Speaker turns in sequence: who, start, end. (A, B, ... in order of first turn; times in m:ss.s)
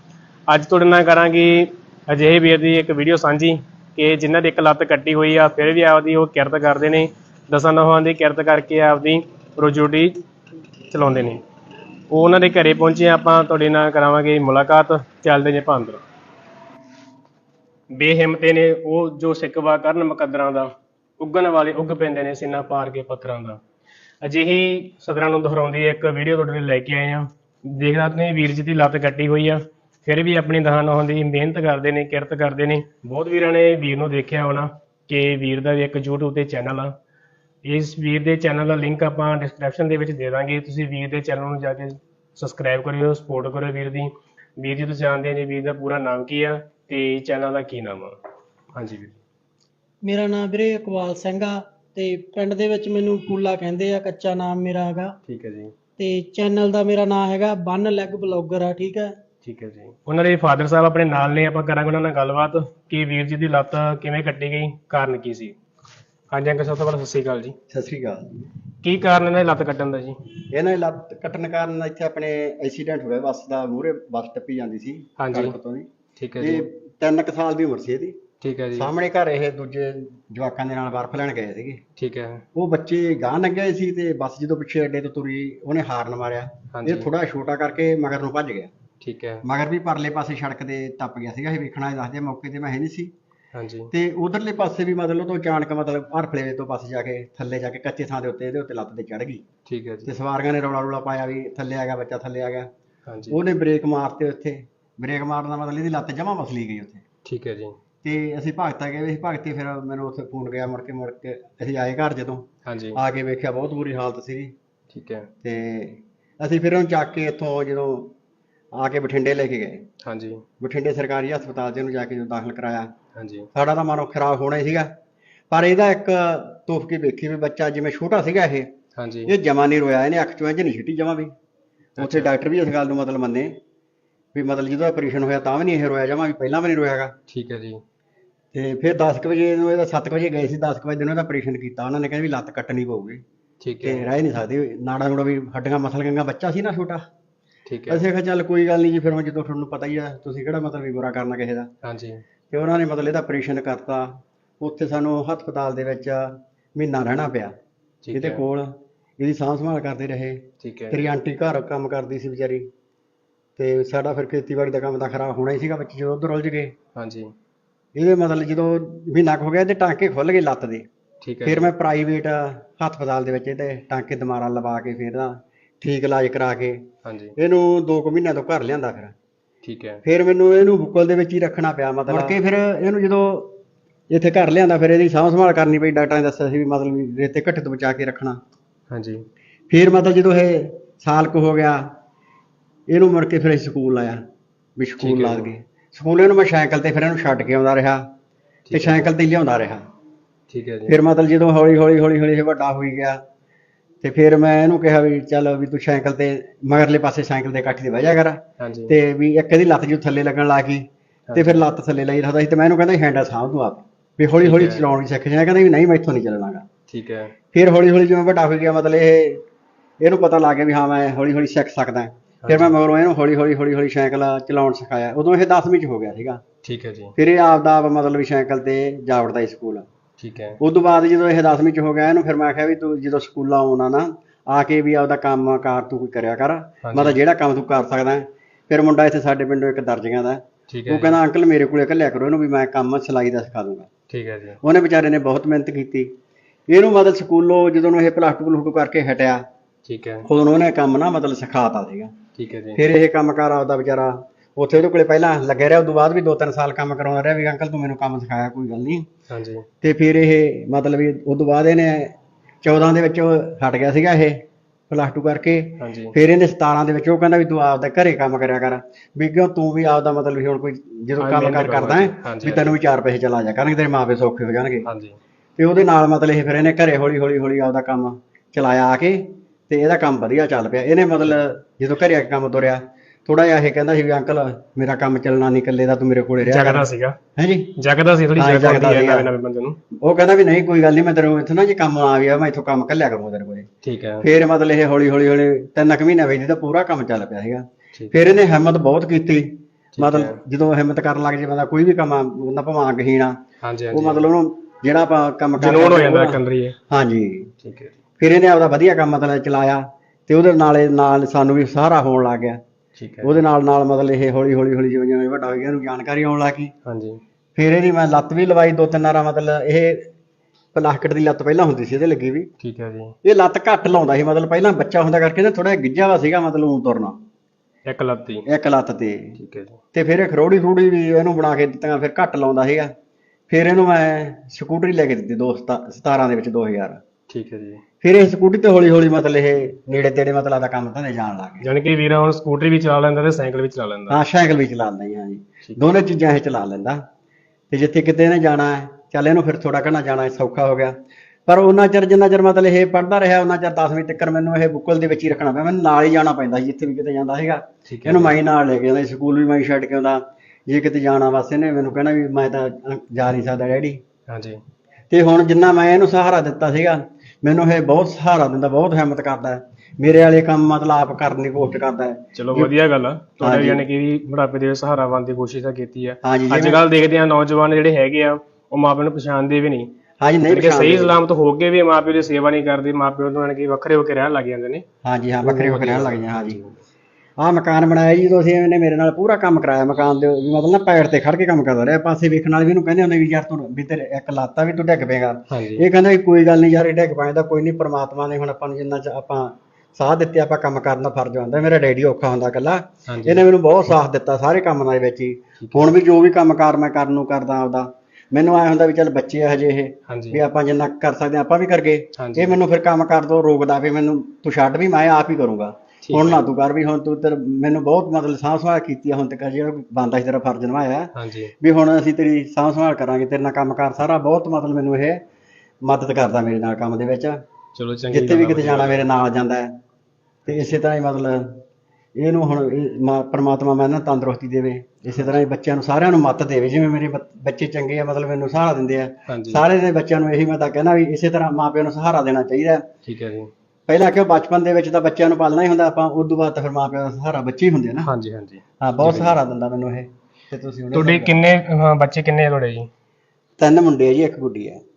0:00.5-0:10.2 A
0:10.9-0:11.4 A
0:12.1-0:16.0 A
0:17.9-0:23.6 A
0:24.2-0:36.9 A
0:37.6-0:48.1 A
0:48.8-0:49.2 A
0:50.0-0:55.2 B
0:55.3-0:55.7 A
0:56.0-0:59.1 B
0:59.4-1:05.6 A
1:06.3-1:07.6 A
1:07.7-1:08.5 C
1:08.8-1:10.2 A
1:10.5-1:15.9 C
1:15.2-1:15.6 A
1:16.2-1:16.7 A
1:16.4-1:18.2 C
1:18.4-1:18.9 A
1:18.8-1:21.8 C
1:22.0-1:22.4 A
1:22.6-1:28.7 C
1:26.7-1:27.1 A
1:29.0-1:29.4 A
1:29.4-1:33.1 C
1:33.5-1:33.9 A
1:33.9-1:39.4 C
1:39.7-1:40.1 A
1:40.1-1:42.7 C
1:43.1-1:43.4 A
1:43.3-1:47.0 C
1:47.2-1:47.8 A
1:48.0-1:54.5 C
1:52.7-1:53.0 A
1:54.9-1:55.3 A
1:55.4-1:58.1 C
1:58.7-1:59.8 C
2:00.0-2:00.4 A
2:00.6-2:02.9 C
2:03.2-2:03.5 A
2:03.6-2:04.9 C
2:05.5-2:08.7 C
2:09.0-2:09.3 A
2:09.3-2:11.3 C
2:12.0-2:12.3 A
2:12.0-2:13.6 C
2:14.3-2:17.2 C
2:17.3-2:17.8 A
2:18.5-2:23.2 C
2:23.6-2:24.1 A
2:23.8-2:27.0 C
2:27.7-2:28.0 A
2:27.9-2:31.7 C
2:31.8-2:32.2 A
2:32.5-2:37.6 C
2:38.0-2:38.4 A
2:38.1-2:42.7 C
2:40.6-2:41.1 A
2:43.6-2:46.8 C
2:47.0-2:47.3 A
2:48.0-2:50.9 C
2:51.2-2:51.7 A
2:51.4-2:59.1 C
2:57.0-2:57.4 A
2:59.6-3:00.0 A
3:00.0-3:03.6 C
3:04.1-3:08.4 C
3:08.9-3:09.2 A
3:09.7-3:11.9 C
3:12.9-3:14.2 C
3:14.8-3:18.1 C
3:15.0-3:15.5 A
3:18.7-3:19.1 A
3:18.7-3:19.8 C
3:20.5-3:21.0 A
3:20.9-3:23.2 C
3:24.0-3:36.7 C
3:28.6-3:29.0 A
3:31.3-3:31.6 A
3:34.4-3:34.9 A
3:36.9-3:37.4 A
3:37.5-3:39.4 C
3:40.0-3:46.4 C
3:42.4-3:42.7 A
3:46.6-3:47.2 A
3:47.2-3:49.9 C
3:50.2-3:50.6 A
3:50.6-4:03.9 C
3:56.8-3:57.2 A
4:00.7-4:01.2 A
4:04.1-4:04.6 A
4:04.6-4:06.1 C
4:06.7-4:09.4 C
4:09.8-4:10.3 A
4:10.2-4:12.2 C
4:12.4-4:12.8 A
4:12.8-4:19.1 C
4:19.3-4:19.7 A
4:19.8-4:34.9 C
4:25.8-4:26.2 A
4:31.2-4:32.8 A
4:34.8-4:35.2 A
4:35.6-4:47.8 C
4:46.4-4:47.2 A
4:47.8-4:49.8 A
4:48.4-4:49.3 C
4:50.0-4:53.7 C
4:53.8-4:54.3 A
4:54.2-5:03.4 C
4:57.9-4:58.3 A
5:00.0-5:00.4 A
5:03.6-5:04.3 A
5:03.9-5:07.5 C
5:05.6-5:06.8 A
5:07.6-5:08.0 A
5:08.2-5:12.6 C
5:13.0-5:13.4 A
5:13.2-5:16.7 C
5:16.9-5:17.2 A
5:17.6-5:20.1 C
5:20.8-5:22.5 C
5:22.6-5:23.2 A
5:23.2-5:27.2 C
5:27.9-5:28.5 A
5:28.5-5:29.4 C
5:29.4-5:29.8 A
5:29.9-5:32.9 C
5:33.5-5:37.0 C
5:37.3-5:37.8 A
5:38.0-5:41.7 C
5:41.6-5:44.2 A
5:44.1-5:47.0 C
5:47.7-5:51.0 C
5:51.5-6:04.0 C
5:57.9-5:58.4 A
6:04.3-6:04.6 A
6:05.1-6:12.7 C
6:12.4-6:19.9 A
6:13.4-6:13.8 C
6:16.2-6:16.8 C
6:20.2-6:21.2 C
6:20.5-6:24.8 A
6:25.0-6:26.6 C
6:25.4-6:26.8 A
6:27.4-7:05.2 C
6:35.5-6:35.8 A
6:43.1-6:43.5 A
6:45.6-6:45.9 A
6:50.1-6:50.4 A
6:52.2-6:52.6 A
6:56.0-6:56.4 A
7:01.2-7:01.5 A
7:05.8-7:07.4 C
7:07.8-7:09.1 A
7:08.1-7:09.8 C
7:10.5-7:11.6 C
7:10.5-7:10.8 A
7:12.2-7:22.9 C
7:15.1-7:15.4 A
7:19.3-7:19.6 A
7:23.0-7:23.5 A
7:23.9-7:28.1 C
7:28.0-7:29.4 A
7:28.8-7:31.4 C
7:30.9-7:32.9 A
7:33.6-7:34.8 C